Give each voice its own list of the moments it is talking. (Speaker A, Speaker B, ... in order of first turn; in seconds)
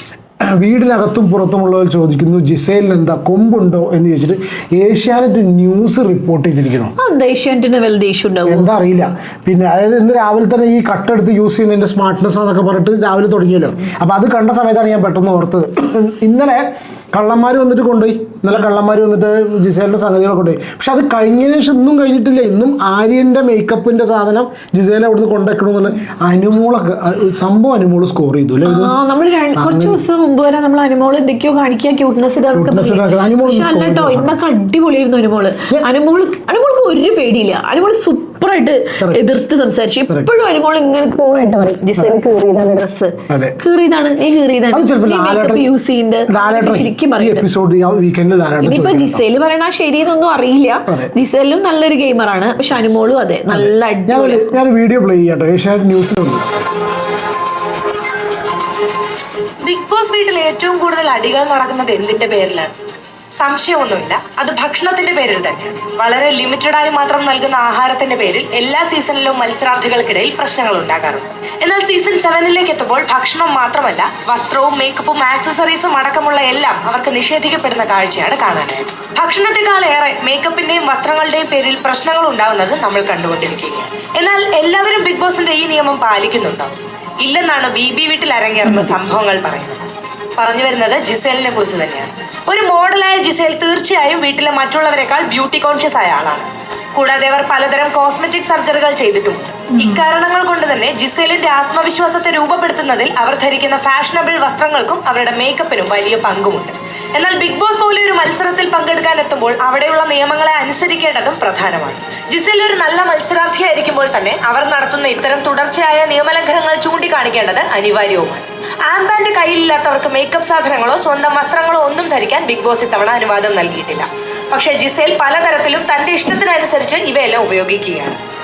Speaker A: 0.4-6.9, 8.5-29.0, 29.5-30.0, 32.5-34.4, 39.0-39.3, 43.3-43.6, 44.7-45.7, 46.3-49.2, 53.5-56.5
Speaker B: 7.0-8.7, 28.6-47.4, 48.6-54.5
Speaker C: 59.6-62.7, 63.4-89.9, 90.4-128.2